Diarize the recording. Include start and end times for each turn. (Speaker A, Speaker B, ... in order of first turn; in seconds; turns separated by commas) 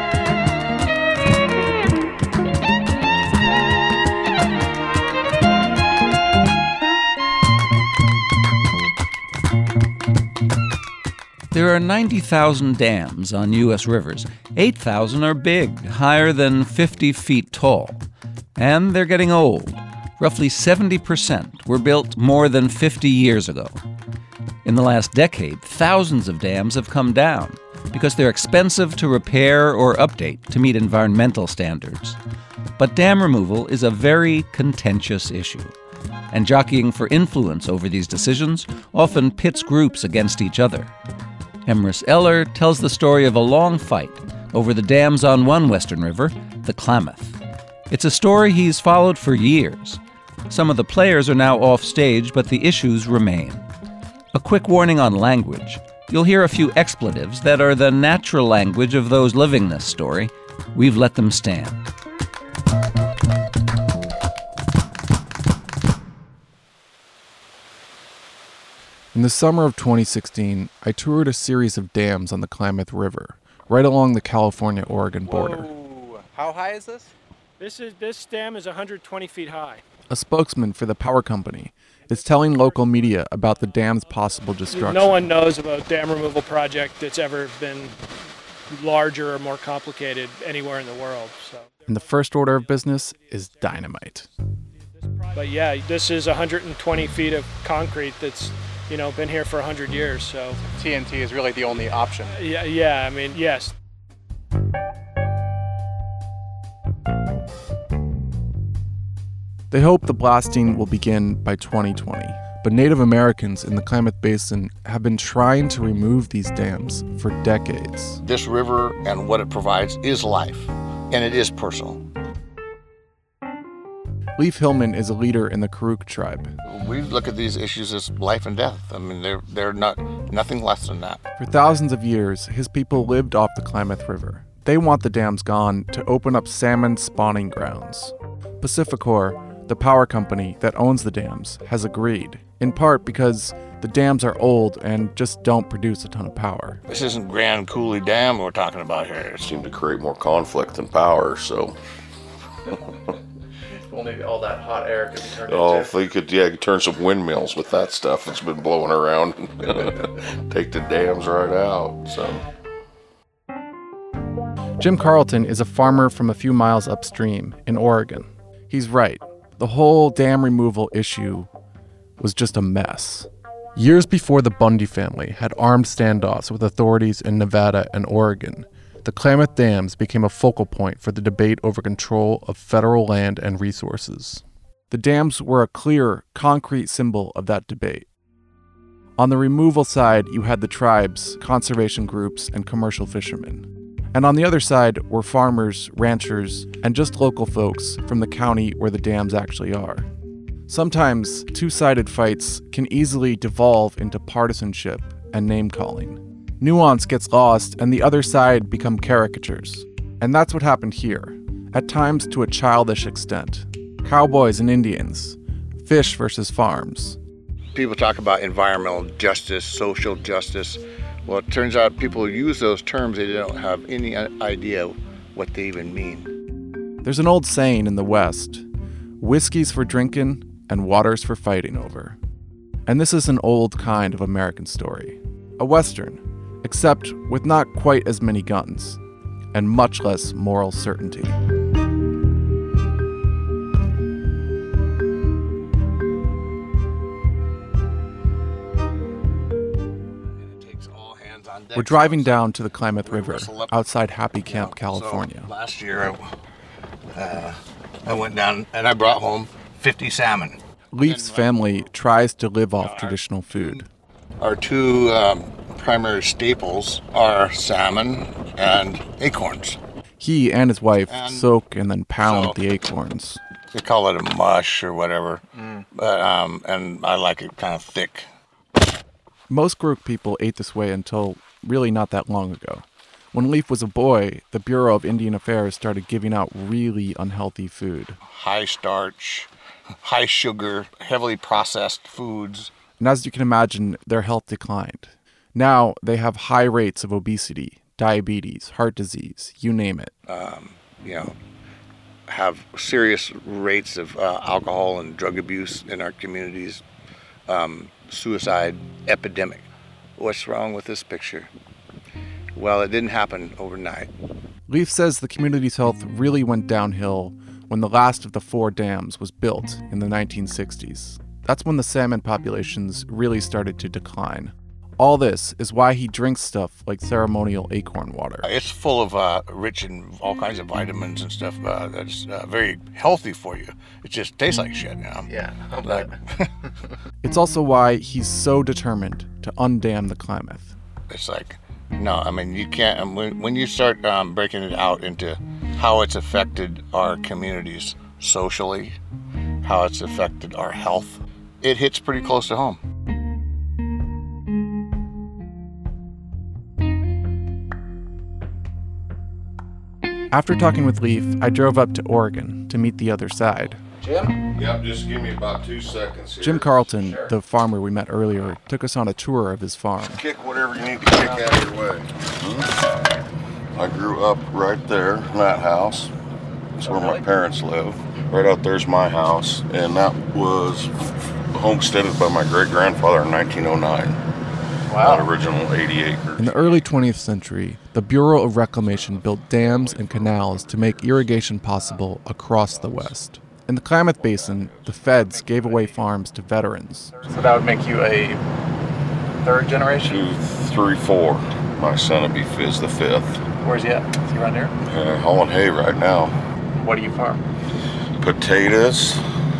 Speaker A: 11.5-18.0, Speaker A: 18.6-23.8, Speaker A: 24.6-32.2, Speaker A: 32.8-35.7, Speaker A: 36.3-40.9, Speaker A: 41.7-47.4, Speaker A: 47.9-53.7, Speaker A: 54.3-61.9, Speaker B: 69.1-75.7, Speaker C: 75.2-77.1, Speaker D: 77.6-79.8, Speaker B: 80.1-85.3, Speaker D: 84.7-88.0, Speaker D: 88.7-91.9, Speaker B: 91.9-94.3, Speaker D: 95.1-100.6, Speaker C: 100.6-102.4, Speaker D: 102.3-103.7, Speaker B: 109.7-118.2, Speaker E: 118.2-122.0, Speaker B: 124.4-126.5, Speaker E: 126.7-131.2, Speaker B: 131.4-146.8, Speaker E: 146.9-149.5, Speaker F: 149.4-151.8, Speaker C: 153.9-155.9, Speaker F: 155.4-162.4, Speaker B: 164.8-171.5, Speaker B: 172.2-188.1, Speaker B: 189.2-200.1, Speaker B: 200.7-217.2, Speaker E: 217.8-226.3, Speaker B: 227.0-228.7, Speaker B: 229.2-232.2, Speaker B: 232.9-239.0, Speaker B: 239.5-241.4, Speaker E: 250.4-252.5, Speaker B: 251.8-255.5, Speaker E: 253.0-253.8, Speaker E: 254.5-256.2, Speaker E: 257.1-261.6, Speaker B: 260.9-263.9, Speaker E: 262.8-263.8, Speaker E: 264.4-269.8, Speaker B: 270.2-273.4, Speaker E: 271.1-271.5, Speaker E: 272.2-272.6, Speaker E: 273.7-278.3, Speaker C: 275.6-275.8, Speaker B: 279.5-288.2, Speaker E: 288.3-289.5, Speaker E: 290.0-292.7, Speaker B: 293.0-300.1, Speaker E: 300.3-301.4, Speaker E: 302.3-306.8, Speaker E: 307.5-309.7, Speaker E: 310.2-311.5, Speaker E: 312.6-314.1, Speaker B: 314.7-328.5, Speaker E: 328.4-336.5, Speaker C: 335.3-336.1, Speaker B: 337.2-340.7, Speaker E: 341.1-349.0, Speaker E: 349.6-352.8, Speaker B: 360.3-363.8, Speaker C: 364.0-364.4, Speaker F: 364.5-366.7, Speaker B: 366.4-370.2, Speaker C: 367.0-367.3, Speaker F: 370.1-372.8, Speaker C: 371.2-371.6, Speaker F: 373.8-376.1, Speaker F: 376.8-384.2, Speaker C: 376.8-377.2, Speaker C: 384.9-385.3, Speaker F: 385.0-386.6, Speaker B: 386.4-397.1, Speaker F: 388.8-391.5, Speaker F: 392.7-393.1, Speaker F: 394.1-395.0, Speaker C: 395.1-396.0, Speaker C: 397.1-398.4, Speaker C: 399.4-400.3, Speaker F: 400.0-403.4, Speaker C: 403.6-404.7, Speaker F: 404.8-406.4, Speaker C: 406.8-407.4, Speaker F: 408.2-409.2